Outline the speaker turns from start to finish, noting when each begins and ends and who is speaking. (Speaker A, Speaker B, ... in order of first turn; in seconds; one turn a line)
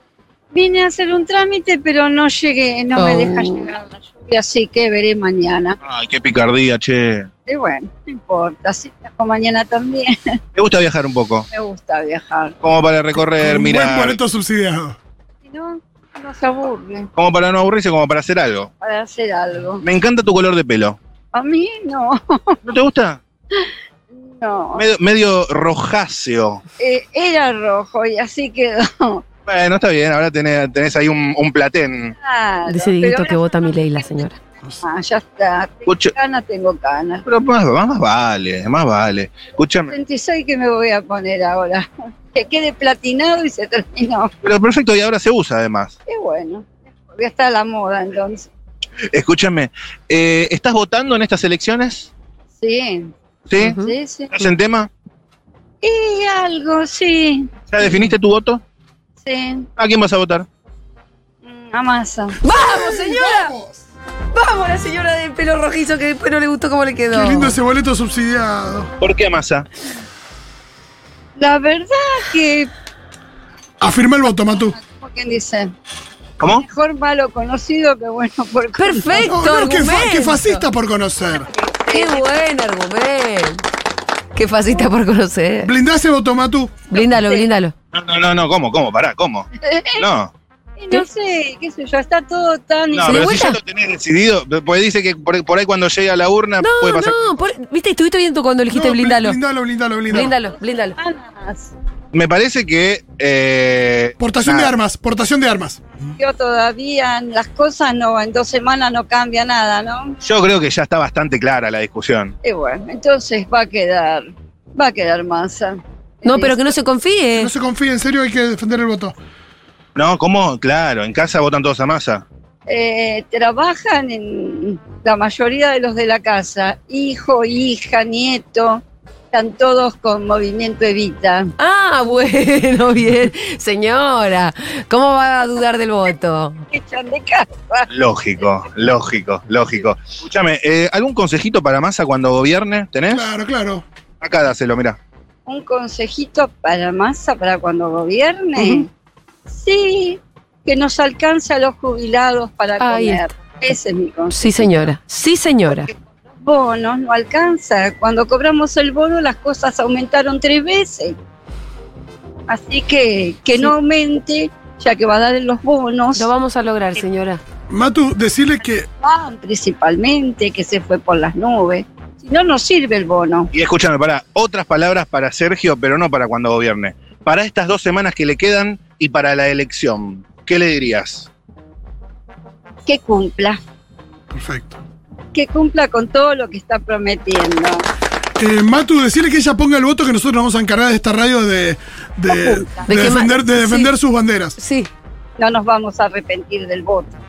Speaker A: 0.5-5.8
Speaker B: 3.0-3.7
Speaker C: 5.8-7.3
Speaker A: 7.5-10.4
Speaker C: 10.6-11.5
Speaker A: 11.5-12.6
Speaker C: 12.6-14.2
Speaker D: 13.4-15.0
Speaker A: 15.4-17.1
Speaker C: 17.2-18.7
Speaker A: 18.8-19.8
Speaker C: 19.8-21.0
Speaker A: 21.3-22.6
Speaker C: 22.6-23.2
Speaker A: 23.6-24.9
Speaker C: 24.8-26.6
Speaker A: 26.8-29.2
Speaker C: 29.5-32.1
Speaker A: 32.2-34.0
Speaker B: 32.7-34.4
Speaker A: 34.8-37.2
Speaker C: 35.9-36.1
Speaker C: 37.3-40.0
Speaker A: 39.9-44.3
Speaker C: 44.4-46.0
Speaker A: 46.1-48.5
Speaker C: 49.1-52.1
Speaker A: 52.6-53.1
Speaker C: 53.5-53.8
Speaker B: 53.6-53.9
Speaker A: 53.8-54.4
Speaker C: 54.3-54.9
Speaker A: 55.8-57.5
Speaker C: 57.7-58.6
Speaker A: 59.2-59.7
Speaker C: 59.8-60.5
Speaker A: 61.4-62.4
Speaker B: 62.4-63.5
Speaker D: 62.5-63.9
Speaker B: 64.3-67.5
Speaker D: 67.1-68.9
Speaker C: 69.0-69.7
Speaker A: 71.4-72.7
Speaker D: 73.8-74.8
Speaker A: 74.6-75.7
Speaker C: 76.4-76.7
Speaker A: 76.5-79.3
Speaker B: 78.8-80.7
Speaker D: 79.1-81.5
Speaker A: 81.4-82.3
Speaker B: 81.9-83.6
Speaker B: 84.3-85.7
Speaker D: 85.6-86.8
Speaker B: 86.9-87.7
Speaker A: 87.0-87.5
Speaker C: 87.9-90.3
Speaker A: 89.6-90.0
Speaker A: 90.8-93.4
Speaker C: 92.9-97.2
Speaker B: 93.0-93.6
Speaker B: 96.6-99.4
Speaker D: 98.7-100.3
Speaker B: 100.1-101.0
Speaker A: 101.0-101.7
Speaker C: 102.1-104.7
Speaker D: 104.2-105.8
Speaker A: 106.2-110.2
Speaker C: 110.2-112.4
Speaker A: 112.4-116.8
Speaker B: 116.2-117.5
Speaker D: 117.3-119.2
Speaker C: 120.0-122.2
Speaker A: 122.7-131.5
Speaker B: 131.6-136.6
Speaker A: 136.7-137.9
Speaker C: 137.9-143.2
Speaker D: 143.1-143.8
Speaker C: 144.2-145.0
Speaker A: 145.5-148.9
Speaker B: 148.6-148.8
Speaker A: 149.5-154.9
Speaker B: 152.8-153.3
Speaker B: 154.3-155.9
Speaker A: 156.4-161.2
Speaker A: 162.5-166.3
Speaker B: 166.2-167.4
Speaker D: 167.7-168.9
Speaker A: 169.0-173.5
Speaker C: 173.5-181.3
Speaker A: 182.9-183.6
Speaker D: 184.3-184.8
Speaker A: 185.3-187.8
Speaker D: 188.4-194.6
Speaker A: 192.3-193.1
Speaker B: 192.9-193.9
Speaker B: 194.6-194.9
Speaker A: 195.4-197.2